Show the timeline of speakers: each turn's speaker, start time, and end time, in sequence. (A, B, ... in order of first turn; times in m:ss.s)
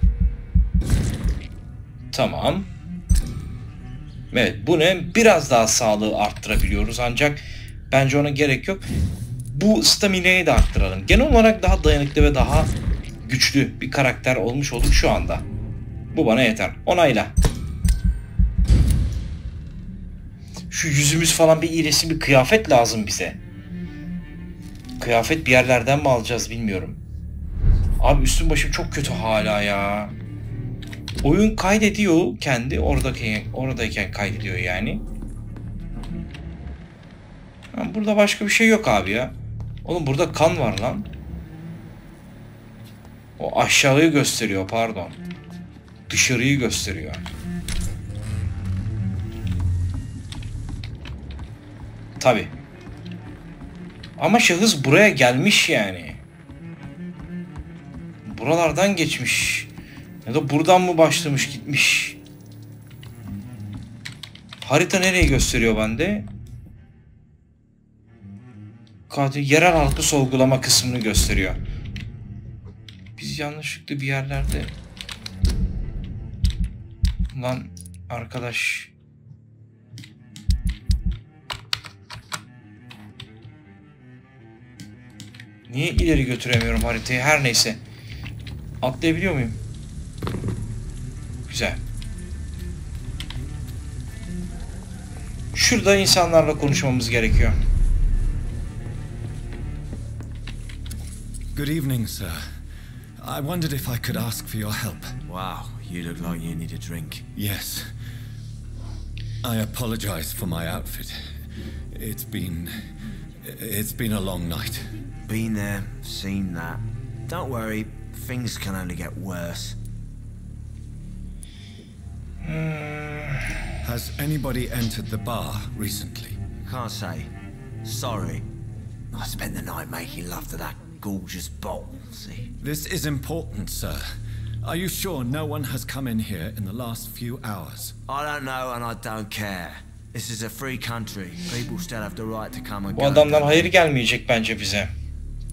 0:02.1-0:02.7 A
0:04.3-0:08.8 A
0:09.4-0:12.7 A
0:13.2-0:15.4 A
0:16.1-0:17.3 A
0:20.7-0:23.4 A
0:25.0-0:27.0 A
0:28.0-0:30.1 A
0:31.2-0:35.0 A
0:37.7-0:41.1 A
0:43.4-0:45.2 A
0:46.1-0:47.2 A
0:52.2-0:52.5 A
0:54.2-0:56.2 A
0:58.2-0:59.7 A
1:00.2-1:02.2 A
1:04.6-1:06.3 A
1:09.1-1:11.6 A
1:13.2-1:14.7 A
1:17.3-1:18.9 A
1:25.7-1:27.8 A
1:28.8-1:29.6 A
1:31.5-1:31.8 A
1:35.5-1:37.6 A
1:41.5-1:42.4 B
1:43.2-1:45.2 B
1:45.3-1:47.2 C
1:47.3-1:47.9 B
1:49.4-1:51.2 B
1:51.9-1:52.7 B
1:53.4-1:54.9 B
1:55.2-1:59.8 C
2:02.4-2:03.6 A
2:03.8-2:06.4 B
2:06.6-2:07.3 C
2:07.8-2:08.5 C
2:09.1-2:12.5 C
2:12.6-2:14.0 B
2:14.6-2:18.0 B
2:18.1-2:23.7 C
2:22.9-2:24.9 A